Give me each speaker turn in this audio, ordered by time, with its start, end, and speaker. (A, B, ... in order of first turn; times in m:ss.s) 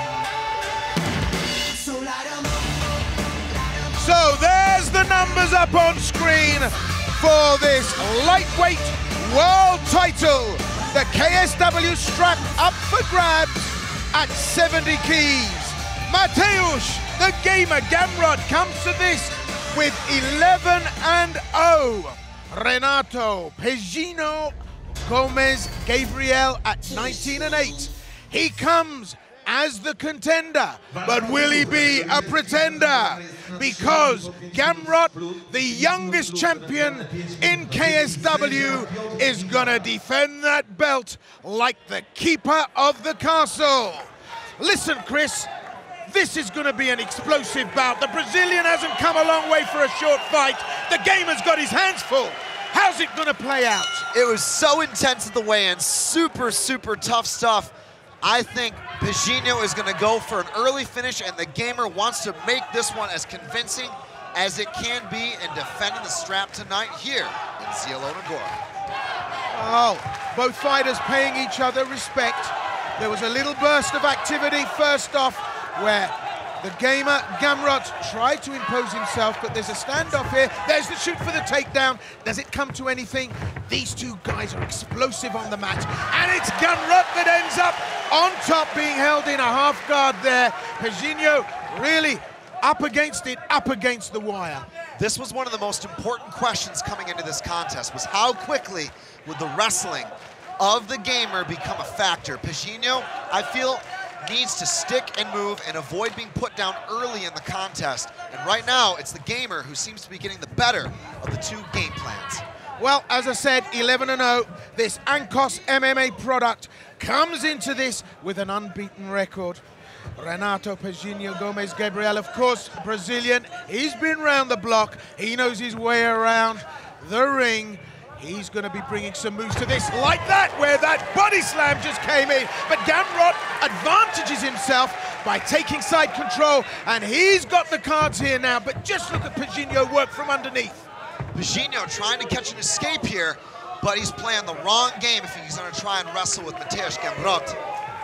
0:03.9-0:45.5 A
0:46.1-0:54.1 A
0:54.1-1:08.6 B
1:09.5-1:34.7 A
1:35.0-1:52.4 B
1:52.8-1:59.6 A
2:00.2-2:20.9 A
2:21.3-2:27.6 B